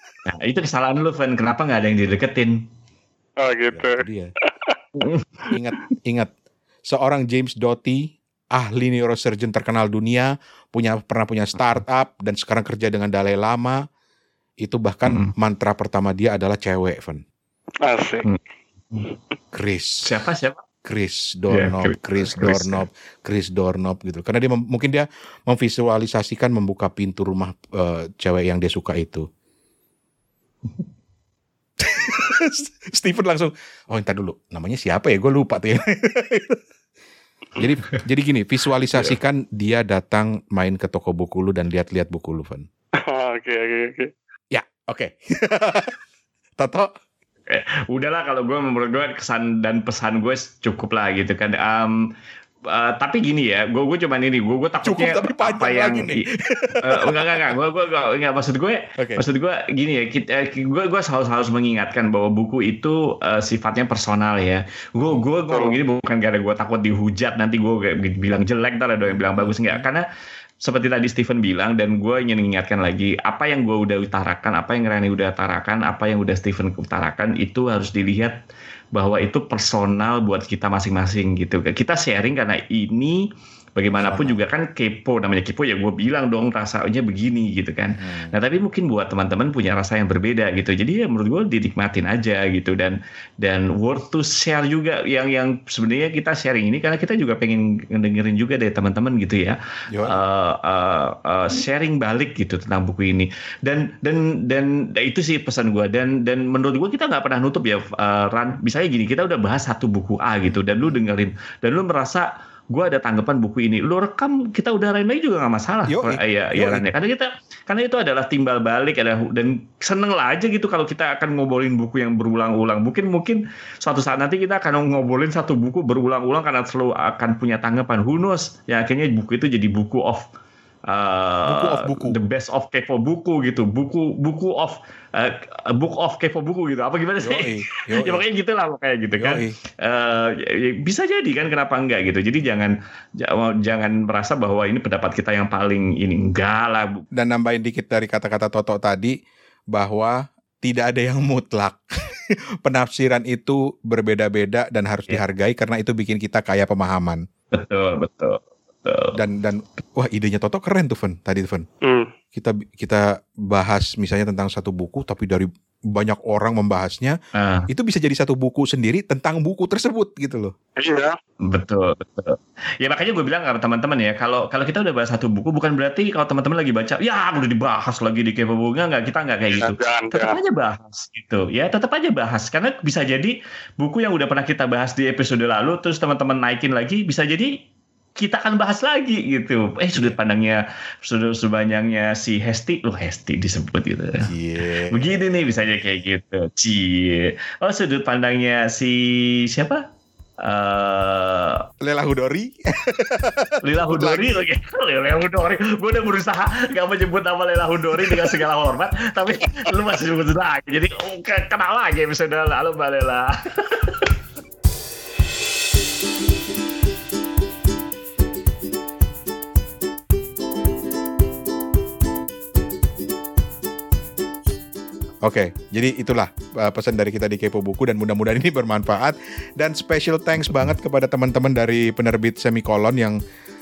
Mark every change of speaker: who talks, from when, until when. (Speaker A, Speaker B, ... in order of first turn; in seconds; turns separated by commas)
Speaker A: 0.2-2.6, Speaker B: 3.4-4.8, Speaker C: 3.7-4.3, Speaker A: 5.0-5.5, Speaker C: 5.5-6.3, Speaker C: 6.9-13.8, Speaker A: 11.6-11.8, Speaker C: 14.6-17.2, Speaker A: 15.1-15.3, Speaker B: 17.8-18.3, Speaker C: 19.5-20.1, Speaker A: 20.0-20.6, Speaker C: 20.8-29.3, Speaker A: 21.5-22.8, Speaker C: 31.8-36.6, Speaker C: 37.6-42.7, Speaker B: 43.0-44.1, Speaker C: 44.5-46.0, Speaker C: 46.6-46.9, Speaker A: 47.5-52.0, Speaker A: 52.7-56.2, Speaker C: 54.8-57.5, Speaker A: 56.8-70.0, Speaker C: 59.0-59.2, Speaker B: 65.5-65.8, Speaker C: 69.0-69.9, Speaker A: 70.6-78.4, Speaker A: 78.9-130.3, Speaker C: 84.0-84.4, Speaker C: 87.9-88.3, Speaker C: 99.9-100.2, Speaker C: 110.5-111.0, Speaker C: 115.9-116.8, Speaker A: 130.9-147.0, Speaker C: 131.4-132.2, Speaker C: 137.2-138.2, Speaker C: 139.2-139.6, Speaker C: 147.1-149.1, Speaker C: 149.7-151.8, Speaker C: 152.6-157.2, Speaker A: 157.5-159.2, Speaker C: 159.1-161.7, Speaker B: 161.8-162.1, Speaker C: 162.3-167.2, Speaker A: 167.3-167.7, Speaker C: 167.7-170.5, Speaker B: 170.8-171.1, Speaker A: 171.4-187.5, Speaker B: 179.5-180.4, Speaker A: 188.2-194.3, Speaker C: 194.2-195.0, Speaker A: 194.9-199.8, Speaker A: 200.4-201.7, Speaker C: 201.8-204.4, Speaker A: 203.6-214.2, Speaker C: 225.2-233.2